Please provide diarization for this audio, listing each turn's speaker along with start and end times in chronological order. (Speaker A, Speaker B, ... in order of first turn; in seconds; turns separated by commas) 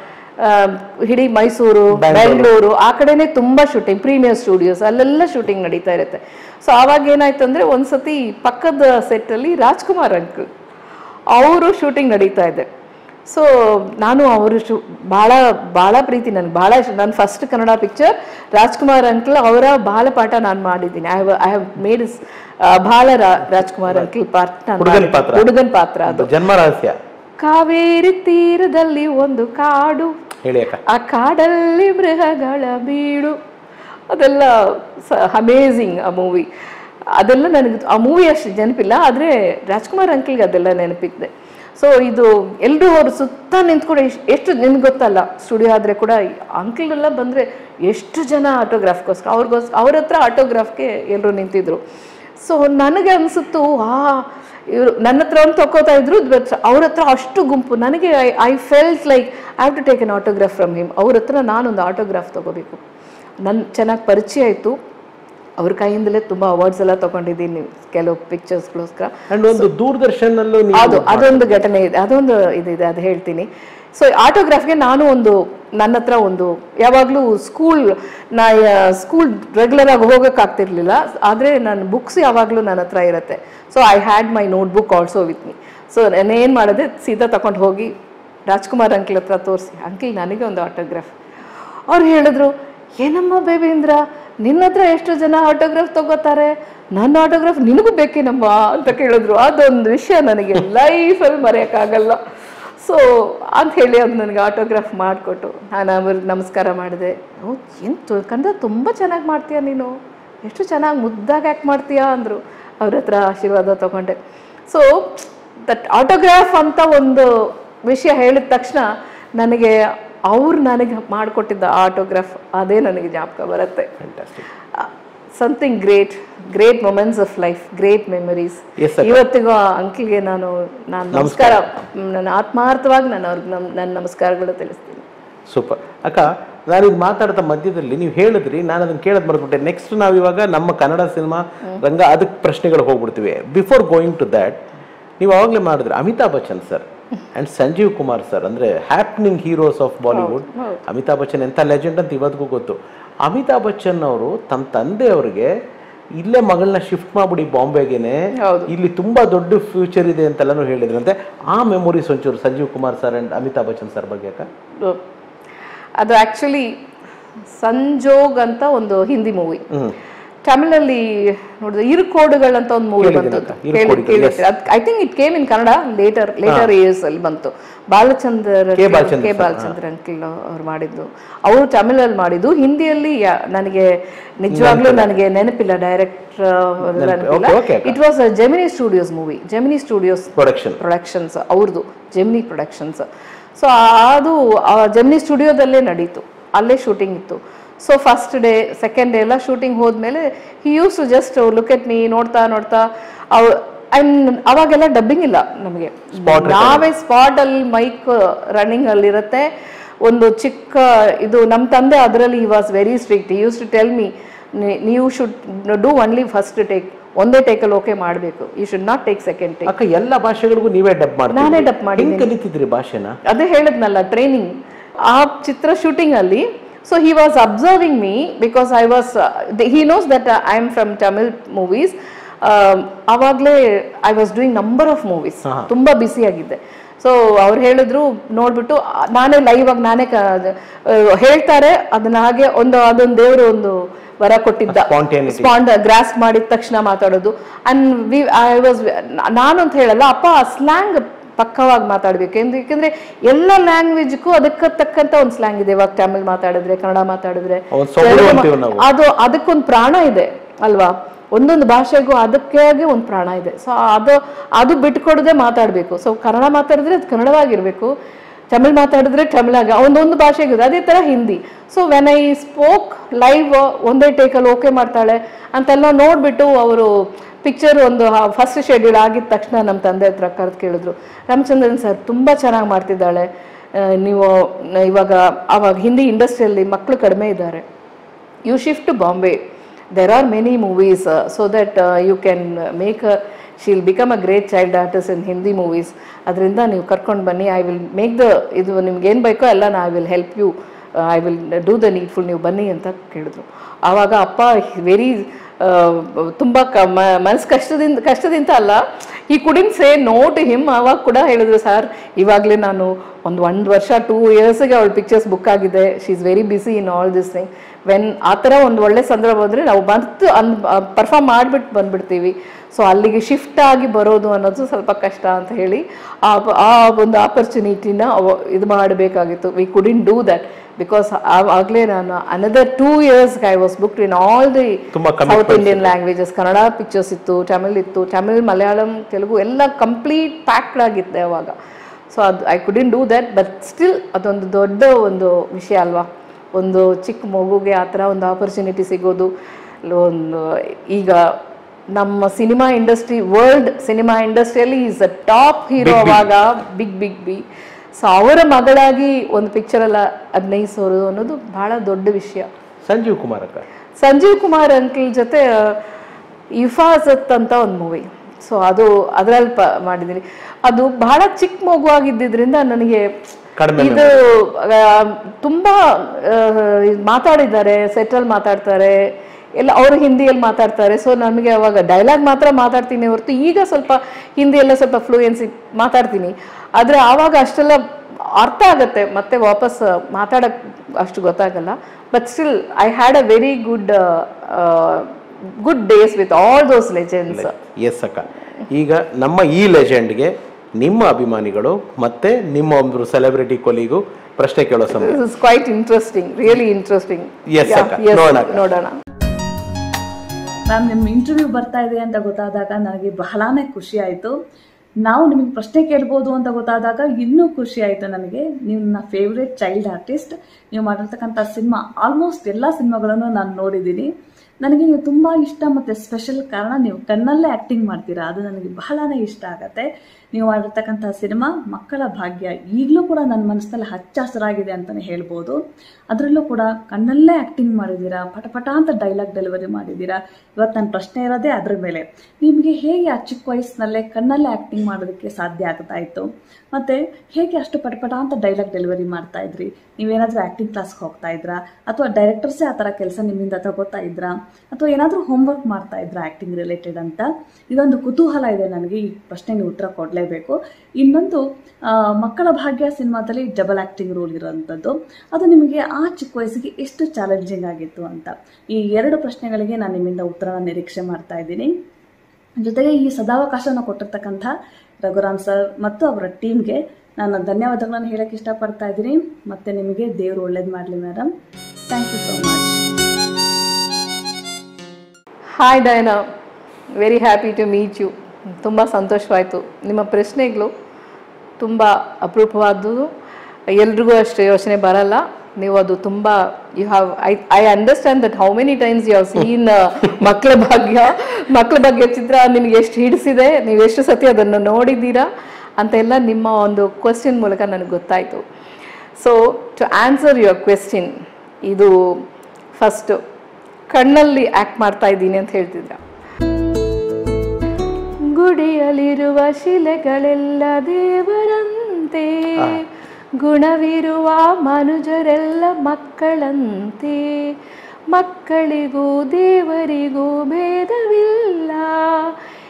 Speaker A: 0.4-10.5, Speaker B: 1.9-2.5, Speaker A: 11.3-12.7, Speaker A: 13.3-26.3, Speaker B: 24.8-25.5, Speaker B: 26.1-26.9, Speaker A: 27.4-30.1, Speaker B: 30.4-30.8, Speaker A: 30.9-33.4, Speaker A: 34.1-36.5, Speaker A: 37.1-51.8, Speaker A: 52.4-62.8, Speaker A: 63.4-64.8, Speaker A: 65.6-69.7, Speaker B: 69.3-71.6, Speaker A: 70.7-87.9, Speaker A: 88.5-91.1, Speaker A: 91.9-102.2, Speaker A: 102.8-114.2, Speaker A: 114.7-123.9, Speaker B: 124.0-124.4, Speaker A: 124.7-135.0, Speaker B: 128.8-129.2, Speaker B: 131.1-131.6, Speaker B: 135.5-144.6, Speaker B: 145.2-155.5, Speaker A: 150.1-150.8, Speaker B: 156.2-158.2, Speaker A: 158.4-158.7, Speaker B: 158.7-164.5, Speaker A: 166.0-166.7, Speaker A: 167.6-169.6, Speaker A: 170.4-209.5, Speaker B: 173.0-174.4, Speaker B: 178.8-179.8, Speaker B: 184.5-185.1, Speaker B: 186.9-187.9, Speaker B: 190.4-190.8, Speaker B: 206.2-206.8, Speaker A: 210.0-219.7, Speaker B: 219.7-223.1, Speaker A: 221.3-222.3, Speaker A: 223.3-224.5, Speaker A: 225.1-267.9, Speaker B: 235.4-235.7, Speaker B: 244.7-245.5, Speaker B: 257.7-258.8, Speaker A: 268.5-276.9, Speaker A: 277.4-287.6, Speaker A: 288.5-289.4, Speaker A: 289.9-341.5, Speaker B: 334.9-335.9, Speaker A: 342.1-349.3, Speaker A: 349.9-351.3, Speaker A: 351.9-357.4, Speaker B: 355.8-356.2, Speaker A: 358.0-362.5, Speaker B: 362.8-363.6, Speaker A: 364.0-365.8, Speaker A: 366.6-373.1, Speaker B: 373.6-374.1, Speaker A: 373.8-379.0, Speaker A: 379.6-387.8, Speaker A: 388.4-397.5, Speaker B: 397.3-405.2, Speaker A: 405.0-408.9, Speaker B: 407.5-408.6, Speaker C: 410.7-414.3, Speaker C: 415.0-424.1, Speaker C: 424.6-435.6, Speaker C: 436.1-461.4, Speaker C: 462.2-471.7, Speaker C: 472.6-474.5, Speaker C: 475.0-481.3, Speaker C: 481.8-482.8, Speaker A: 485.6-486.2, Speaker A: 487.0-490.7, Speaker A: 491.6-493.1, Speaker A: 493.7-505.3, Speaker A: 505.8-508.4, Speaker A: 509.2-511.1, Speaker A: 511.6-511.9, Speaker A: 512.8-513.2, Speaker A: 513.9-516.0, Speaker A: 518.3-522.8, Speaker A: 523.4-527.5, Speaker A: 528.1-532.4